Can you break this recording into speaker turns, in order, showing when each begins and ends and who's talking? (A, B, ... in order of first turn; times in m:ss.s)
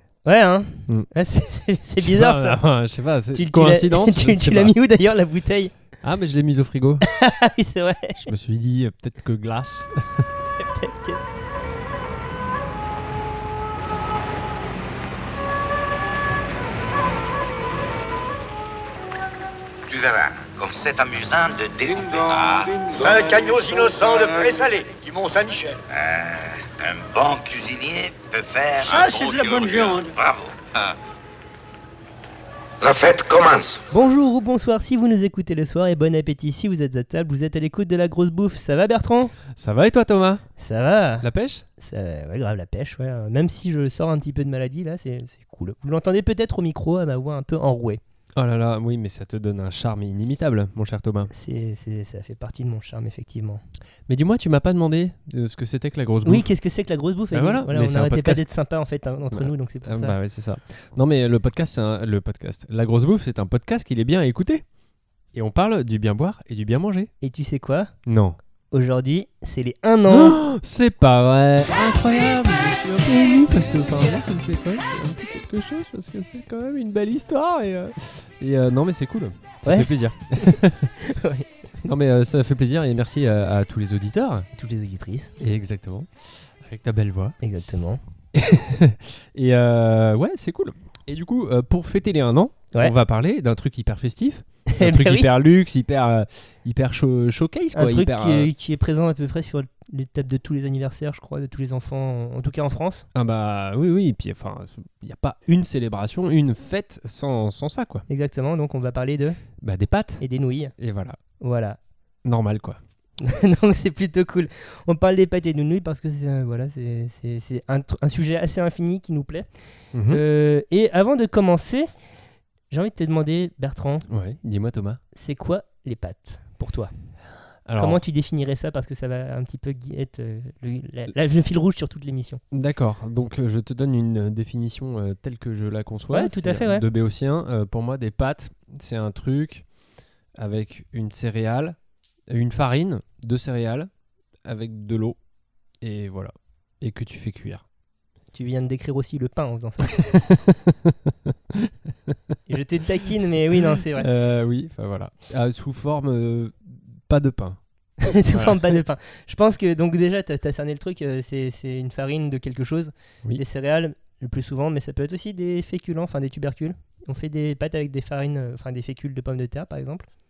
0:00.2-0:02.6 A
0:02.0-0:04.7 B
0:03.3-0:05.7 A
0:06.0-0:07.1 B
0:07.0-0:08.3 A
0:08.3-0:10.3 B
0:10.5-0:11.2 A
0:19.9-0:24.9 C
0:22.2-0:25.8 D
0:25.9-0:31.0 C
0:29.0-0:30.0 D
0:32.8-0:33.8 C
0:33.9-0:39.4 A
0:39.5-0:40.5 B
0:40.6-0:41.3 A
0:41.2-0:41.6 B
0:41.8-0:48.0 A
0:48.4-0:51.3 B
0:51.3-0:53.6 A
0:54.1-0:56.5 B
0:56.2-1:00.2 A
0:57.3-0:58.4 B
0:59.3-1:04.6 B
1:05.3-1:07.1 B
1:07.2-1:07.9 A
1:08.1-1:08.4 B
1:08.7-1:10.4 A
1:10.1-1:20.9 B
1:19.6-1:21.5 A
1:21.8-1:24.5 B
1:24.5-1:25.3 A
1:25.4-1:27.4 B
1:27.4-1:28.0 A
1:28.3-1:38.5 B
1:34.7-1:35.3 A
1:37.7-1:43.1 A
1:43.1-1:48.1 B
1:48.1-1:49.4 A
1:49.6-1:50.3 B
1:50.2-1:50.7 A
1:50.8-1:51.2 B
1:51.4-1:51.8 A
1:52.2-1:52.8 B
1:53.2-1:59.5 A
1:59.9-2:00.2 B
2:00.1-2:01.9 A
2:02.7-2:04.1 A
2:04.1-2:05.0 B
2:05.1-2:06.9 A
2:07.7-2:08.0 B
2:07.8-2:12.4 A
2:12.5-2:19.7 B
2:16.1-2:16.9 A
2:20.4-2:21.8 B
2:22.3-2:23.9 B
2:24.4-2:25.2 B
2:25.8-2:27.6 B
2:28.3-2:30.2 A
2:30.3-2:32.4 B
2:32.5-2:34.1 A
2:34.0-2:37.6 B
2:38.0-2:50.1 A
2:38.3-2:38.7 B